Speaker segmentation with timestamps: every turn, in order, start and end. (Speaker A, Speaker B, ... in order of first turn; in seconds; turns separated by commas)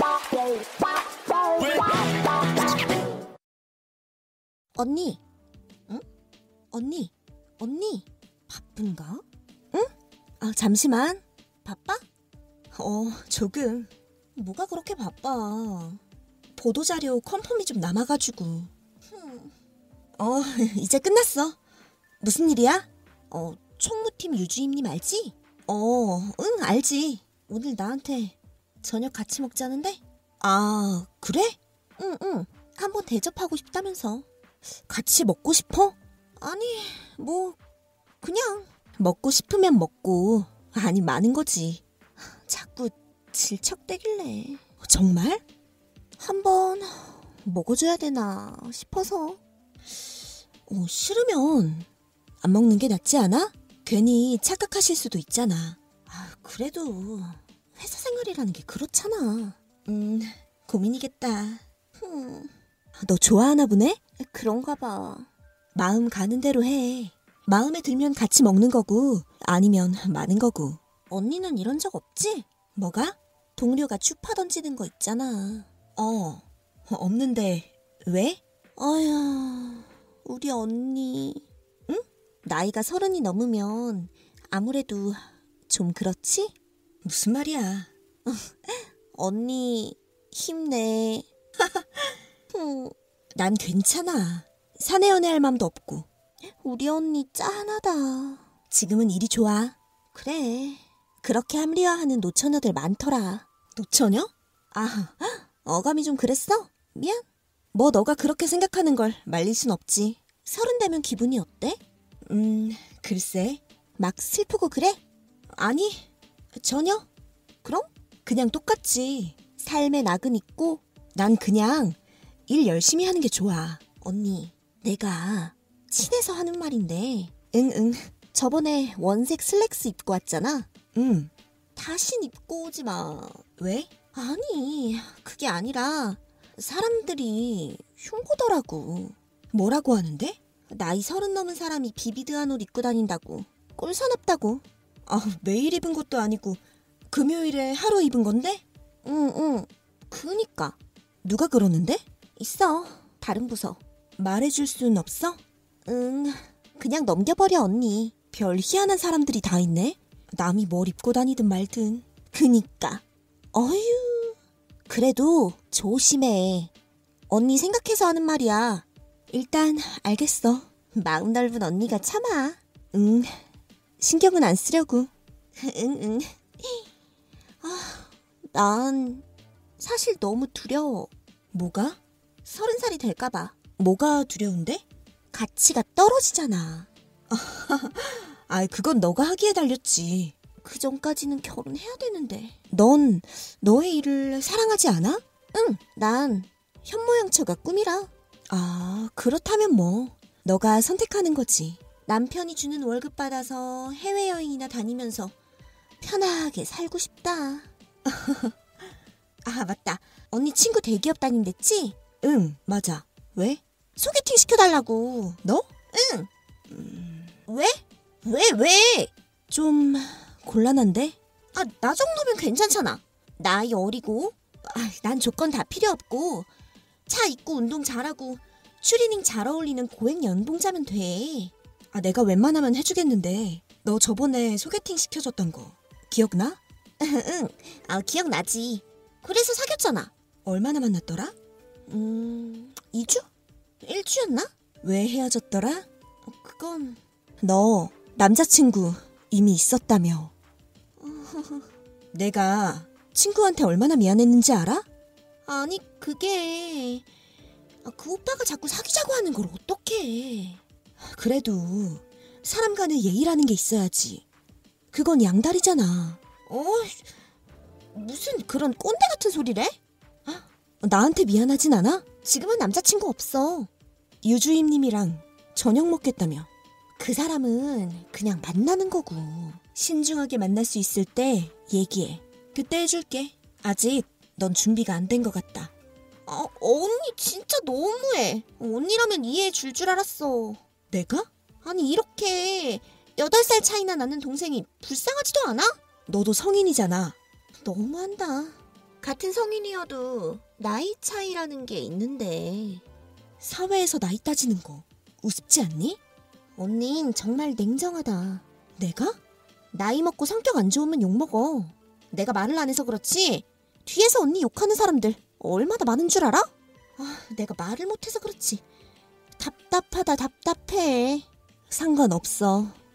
Speaker A: 4.7-5.2, Speaker A: 6.7-12.0, Speaker A: 12.7-16.0, Speaker A: 16.6-19.5, Speaker A: 20.2-21.6, Speaker A: 22.2-34.3, Speaker A: 34.8-37.6, Speaker A: 38.2-45.4, Speaker A: 46.2-49.4, Speaker A: 50.7-51.9, Speaker A: 52.4-115.0, Speaker A: 115.5-117.1, Speaker A: 117.6-166.7, Speaker A: 167.3-173.4, Speaker A: 174.0-176.9, Speaker A: 177.6-179.2, Speaker A: 179.8-205.3, Speaker A: 206.0-208.5, Speaker A: 209.4-226.5, Speaker A: 227.1-241.3, Speaker A: 241.9-243.3, Speaker A: 243.8-250.3, Speaker A: 251.0-254.8, Speaker A: 255.4-257.1, Speaker A: 257.8-264.2, Speaker A: 264.9-267.1, Speaker A: 267.9-273.7, Speaker A: 274.2-285.7, Speaker A: 286.2-302.8, Speaker A: 303.4-306.0, Speaker A: 306.6-309.2, Speaker A: 309.7-318.6, Speaker A: 319.4-322.8